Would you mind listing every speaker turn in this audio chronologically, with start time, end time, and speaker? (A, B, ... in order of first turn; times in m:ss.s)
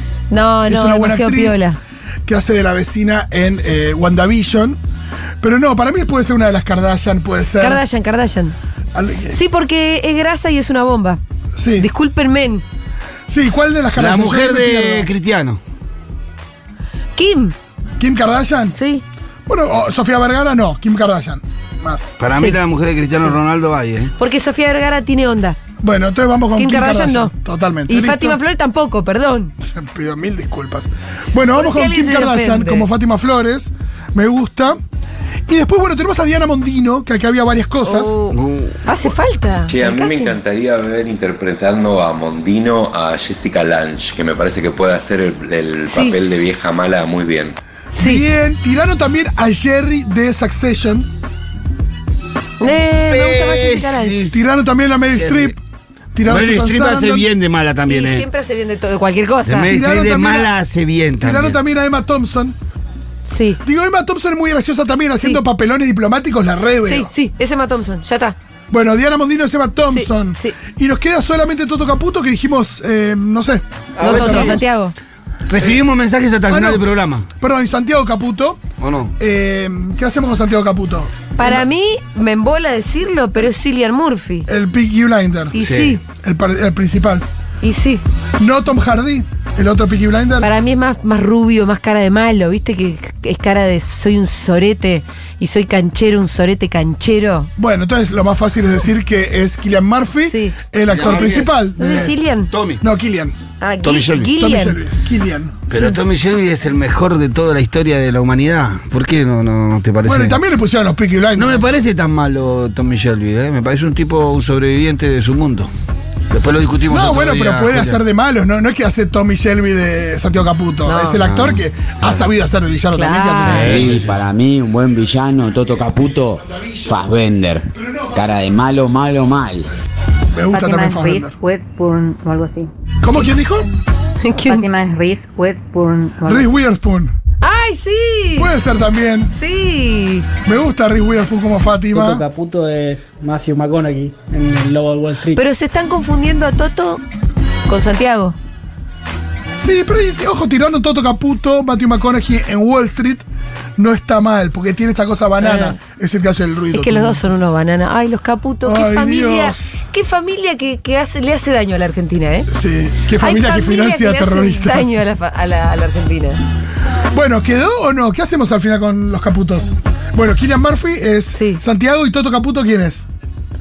0:00.3-0:01.8 A
0:00.6-0:01.6 B
0:02.3-0:04.8 B
0:05.4-0:07.8 B
0:07.6-0:08.6 A
0:08.9-0:09.4 B
0:09.3-0:11.2 A
0:11.6-0:11.9 B
0:11.8-0:12.6 A
0:13.3-0:15.1 B
0:14.0-0:15.6 C
0:17.2-0:17.6 A
0:18.0-0:18.8 B
0:18.7-0:19.0 A
0:19.5-0:22.1 B
0:22.2-0:24.1 C
0:22.3-0:22.6 A
0:24.2-0:25.6 A
0:25.8-0:28.4 B
0:26.5-0:27.3 A
0:27.9-0:29.5 A
0:29.6-0:34.8 B
0:31.5-0:32.9 A
0:35.5-0:38.2 B
0:37.8-0:40.4 A
0:38.3-0:38.8 C
0:39.7-0:47.6 D
0:45.8-0:46.2 A
0:47.9-0:48.2 A
0:48.0-0:51.1 B
0:52.6-0:54.4 A
0:52.9-0:54.4 C
0:54.3-0:55.6 B
0:55.1-0:55.6 C
0:56.2-0:57.3 B
0:56.2-0:58.2 C
0:57.9-0:59.7 A
0:59.4-1:01.6 C
0:59.7-1:00.6 B
1:01.2-1:02.6 B
1:03.2-1:03.6 A
1:03.6-1:07.1 B
1:05.2-1:05.4 A
1:06.8-1:08.4 A
1:08.7-1:14.6 B
1:09.9-1:10.6 A
1:14.0-1:14.6 C
1:14.0-1:14.9 A
1:15.5-1:17.3 C
1:16.5-1:16.9 B
1:17.4-1:18.6 B
1:18.8-1:19.1 C
1:19.2-1:21.6 B
1:21.4-1:24.5 A
1:24.5-1:25.6 B
1:25.5-1:26.0 A
1:25.6-1:26.0 C
1:26.1-1:27.2 B
1:27.6-1:28.0 A
1:28.4-1:30.5 B
1:30.4-1:37.5 A
1:37.6-1:42.2 B
1:40.2-1:40.6 A
1:40.9-1:42.8 C
1:41.1-1:42.5 A
1:42.8-1:43.4 B
1:43.6-1:44.8 A
1:43.8-1:44.4 C
1:44.4-1:45.6 B
1:45.7-1:50.4 C
1:45.7-1:46.0 A
1:50.0-1:51.7 B
1:51.4-1:55.7 C
1:56.3-1:58.0 C
1:56.9-2:04.1 B
2:00.8-2:01.2 A
2:01.2-2:02.2 C
2:02.9-2:03.8 A
2:03.4-2:04.1 C
2:03.8-2:09.8 E
2:06.5-2:07.0 B
2:07.8-2:08.3 B
2:10.3-2:11.4 B
2:10.5-2:12.7 F
2:13.0-2:13.7 B
2:14.2-2:14.7 A
2:14.5-2:16.6 F
2:16.2-2:17.1 B
2:17.4-2:18.5 A
2:18.4-2:19.3 B
2:19.3-2:20.3 A
2:20.4-2:22.2 B
2:21.9-2:25.4 G
2:25.3-2:27.0 A
2:27.7-2:28.4 A
2:29.5-2:33.3 B
2:33.8-2:37.2 B
2:35.4-2:35.8 A
2:36.7-2:42.5 A
2:38.6-2:39.8 B
2:42.5-2:45.0 B
2:43.2-2:46.4 A
2:47.1-2:53.0 B
2:51.3-2:51.6 A